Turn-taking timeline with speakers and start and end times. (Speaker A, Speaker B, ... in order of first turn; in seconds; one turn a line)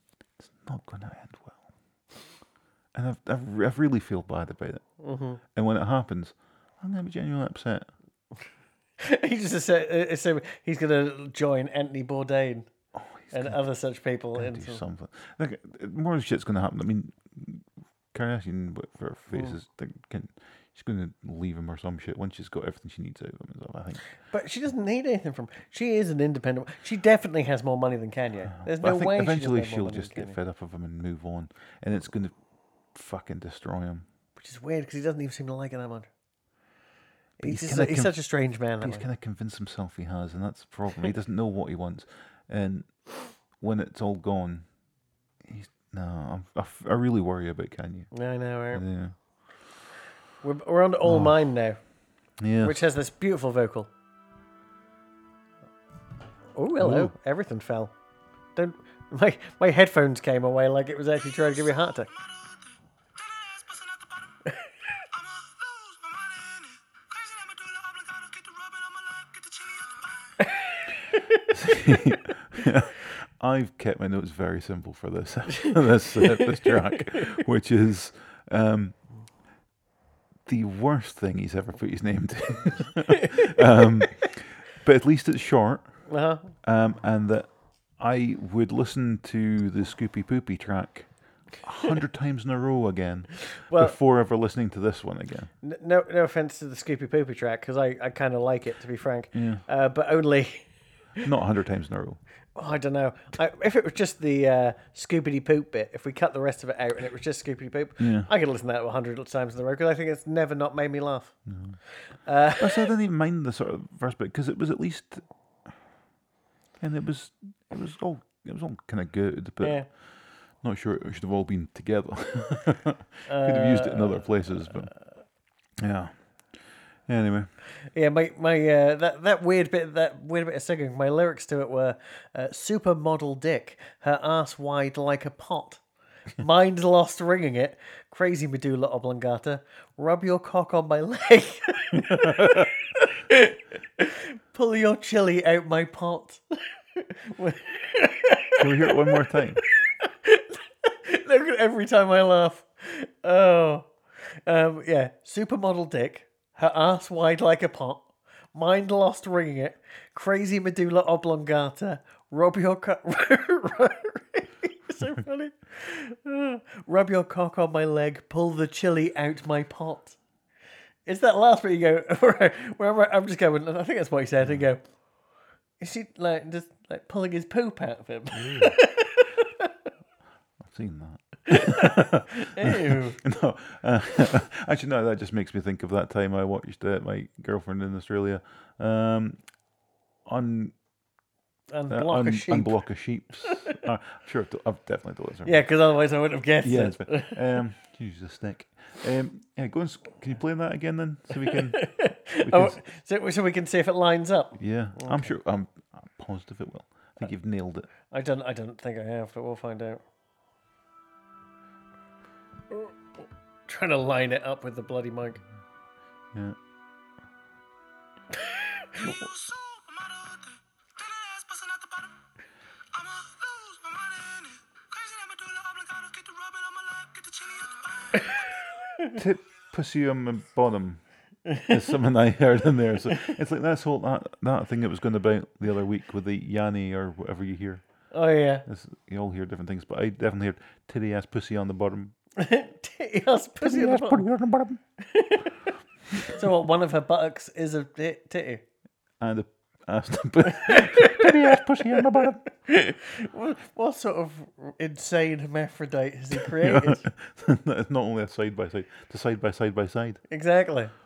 Speaker A: 0.4-1.7
Speaker A: 2.9-4.8
Speaker B: 5.0-5.4
Speaker A: 5.5-7.9
Speaker B: 9.0-12.7
Speaker A: 12.9-13.6
Speaker B: 13.3-14.8
Speaker A: 14.3-24.0
Speaker B: 24.3-30.4
Speaker A: 28.5-32.3
Speaker A: 32.9-34.0
Speaker B: 34.4-36.1
Speaker A: 37.4-38.1
Speaker B: 37.4-39.0
Speaker A: 38.8-44.7
Speaker A: 45.4-48.1
Speaker B: 48.1-48.8
Speaker A: 48.7-49.1
Speaker B: 50.4-51.8
Speaker A: 51.0-51.4
Speaker A: 52.4-52.8
Speaker B: 52.6-53.9
Speaker B: 56.5-57.9
Speaker A: 56.8-57.1
Speaker B: 58.5-62.1
Speaker C: 61.3-70.5
Speaker A: 71.5-79.0
Speaker A: 80.5-86.0
Speaker B: 86.0-86.5
Speaker A: 86.6-95.5
Speaker B: 93.5-94.0
Speaker B: 95.6-100.7
Speaker A: 99.3-99.6
Speaker A: 101.2-102.2
Speaker B: 102.5-111.4
Speaker A: 108.0-108.3
Speaker A: 111.5-111.8
Speaker B: 112.1-112.9
Speaker A: 112.5-115.2
Speaker A: 116.8-124.9
Speaker B: 119.6-119.9
Speaker B: 123.3-124.9
Speaker A: 125.8-126.2
Speaker A: 127.1-127.5
Speaker B: 127.8-135.8
Speaker B: 136.4-149.2
Speaker A: 141.9-142.7
Speaker A: 148.6-149.6
Speaker B: 149.8-170.2
Speaker B: 171.1-174.8
Speaker B: 175.8-179.7
Speaker A: 178.3-178.8
Speaker A: 180.6-189.4
Speaker B: 181.5-183.2
Speaker A: 190.2-190.7
Speaker B: 191.7-192.8
Speaker A: 191.9-195.6
Speaker B: 193.4-193.7
Speaker B: 195.4-197.4
Speaker A: 196.6-202.8
Speaker B: 201.5-205.3
Speaker A: 204.6-207.9
Speaker B: 208.0-210.0
Speaker B: 213.7-215.4
Speaker C: 219.0-222.2
Speaker C: 222.9-228.8
Speaker A: 229.1-231.0
Speaker B: 231.5-231.8
Speaker A: 231.6-237.8
Speaker B: 238.1-238.7
Speaker A: 238.7-242.1
Speaker B: 242.3-244.2
Speaker A: 243.6-244.8
Speaker B: 245.0-245.7
Speaker B: 246.3-248.6
Speaker A: 249.2-252.4
Speaker B: 250.5-257.1
Speaker A: 256.5-260.2
Speaker B: 260.3-260.9